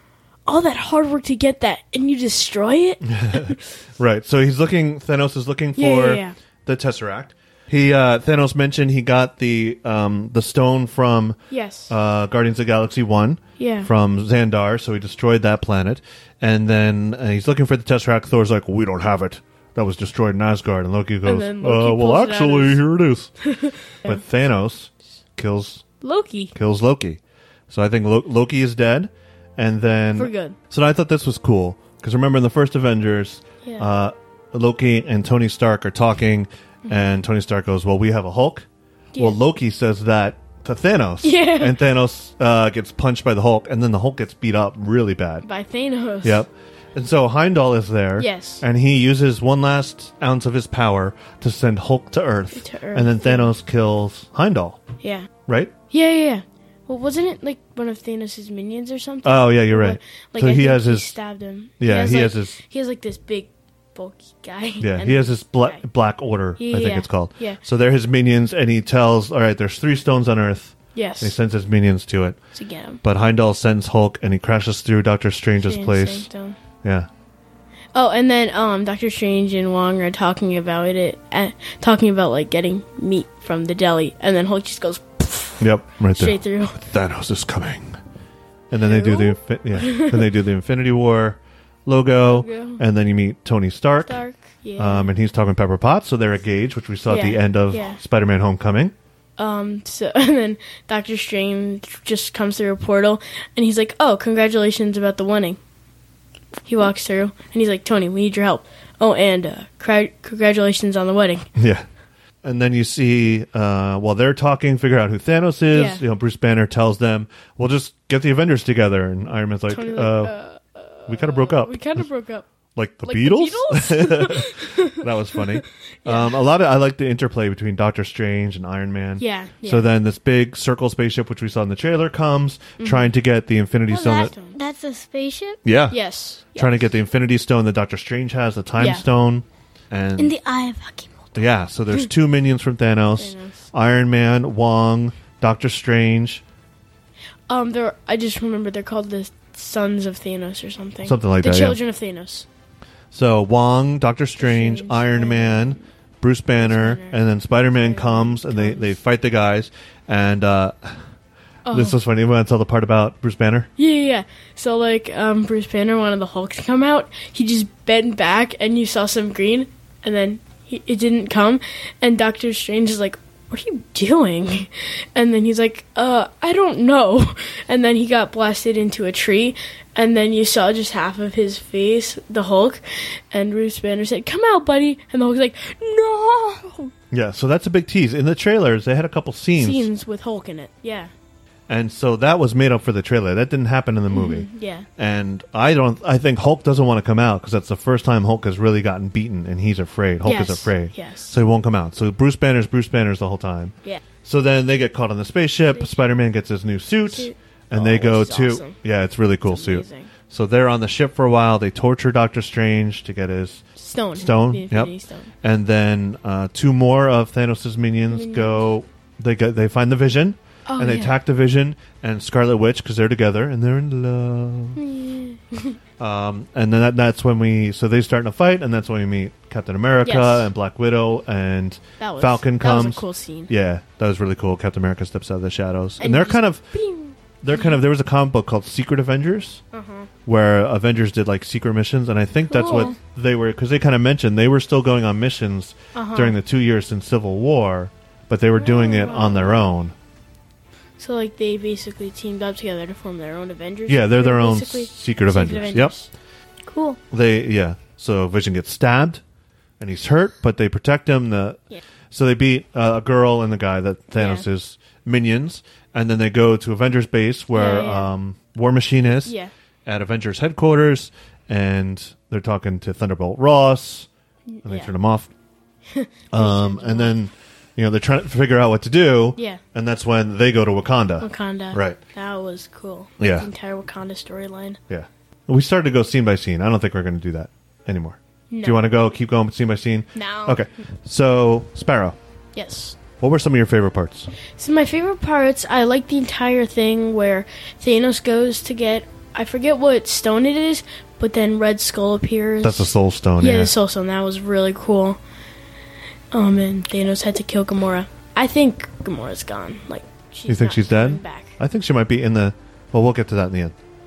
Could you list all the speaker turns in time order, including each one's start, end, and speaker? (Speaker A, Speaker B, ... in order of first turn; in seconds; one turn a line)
Speaker A: 0.5-3.6
Speaker B: 3.0-11.4
Speaker A: 5.8-6.3
Speaker A: 11.5-11.9
Speaker B: 11.9-23.3
Speaker A: 13.6-13.9
Speaker A: 21.2-22.8
Speaker A: 23.4-24.2
Speaker B: 24.0-25.8
Speaker A: 26.0-26.5
Speaker B: 26.5-38.6
Speaker A: 30.1-30.6
Speaker A: 36.8-37.1
Speaker B: 39.2-45.4
Speaker A: 41.2-41.8
Speaker A: 45.4-46.4
Speaker B: 46.2-54.8
Speaker A: 48.2-48.6
Speaker A: 52.5-53.5
Speaker A: 55.0-55.3
Speaker B: 55.5-55.7
Speaker A: 55.9-65.8
Speaker B: 59.2-61.1
Speaker B: 61.8-62.6
Speaker B: 64.8-72.4
Speaker A: 66.6-67.6
Speaker A: 70.9-71.3
Speaker A: 72.5-73.0
Speaker B: 73.0-76.3
Speaker A: 75.6-76.6
Speaker B: 76.8-77.1
Speaker A: 77.9-86.8
Speaker B: 85.6-88.0
Speaker B: 88.7-94.2
Speaker A: 88.8-90.3
Speaker A: 92.2-92.8
Speaker A: 94.0-95.1
Speaker B: 94.8-98.9
Speaker A: 97.1-98.0
Speaker A: 99.4-105.6
Speaker A: 106.7-111.5
Speaker B: 111.5-111.8
Speaker B: 112.4-120.3
Speaker A: 115.7-116.0
Speaker A: 119.7-122.5
Speaker B: 121.1-122.0
Speaker B: 122.8-134.3
Speaker A: 123.0-126.4
Speaker A: 129.2-129.9
Speaker A: 132.8-133.1
Speaker A: 133.9-134.6
Speaker C: 133.9-135.6
Speaker B: 135.6-136.0
Speaker A: 135.9-136.8
Speaker B: 136.5-140.3
Speaker A: 138.8-139.1
Speaker C: 140.2-141.4
Speaker B: 141.3-146.4
Speaker A: 143.2-143.7
Speaker A: 147.5-152.4
Speaker B: 151.0-151.8
Speaker B: 153.1-161.0
Speaker A: 154.4-155.8
Speaker A: 156.6-158.9
Speaker A: 161.6-162.0
Speaker B: 161.7-163.7
Speaker A: 163.8-186.9
Speaker B: 187.1-189.9
Speaker A: 189.6-191.1
Speaker B: 191.7-224.8
Speaker A: 194.1-194.9
Speaker A: 200.2-201.4
Speaker A: 205.7-206.1
Speaker A: 207.1-208.8
Speaker A: 209.4-210.1
Speaker A: 213.8-215.3
Speaker A: 218.1-218.7
Speaker A: 220.7-221.1
Speaker A: 224.8-225.8
Speaker B: 226.0-236.6
Speaker A: 230.0-230.5
Speaker A: 232.0-233.5
Speaker A: 236.0-237.7
Speaker B: 237.4-239.6
Speaker A: 239.7-240.1
Speaker B: 240.2-249.9
Speaker C: 242.5-242.9
Speaker A: 242.6-242.9
Speaker A: 245.9-246.3
Speaker A: 248.6-249.7
Speaker A: 251.0-256.1
Speaker B: 253.9-255.9
Speaker C: 256.6-257.0
Speaker B: 257.1-259.2
Speaker B: 259.8-274.1
Speaker A: 264.1-264.5
Speaker A: 267.5-268.1
Speaker A: 269.2-269.5
Speaker A: 274.5-274.9
Speaker B: 274.6-275.3
Speaker A: 275.9-277.2
Speaker B: 276.3-282.0
Speaker A: 279.4-279.6
Speaker A: 281.2-284.8
Speaker B: 283.2-283.5
Speaker B: 284.9-292.2
Speaker A: 288.5-288.8
Speaker A: 290.1-290.6
Speaker A: 292.5-293.0
Speaker B: 293.2-294.3
Speaker A: 294.6-305.2
Speaker B: 302.6-303.7
Speaker A: 306.3-311.6
Speaker B: 310.5-313.7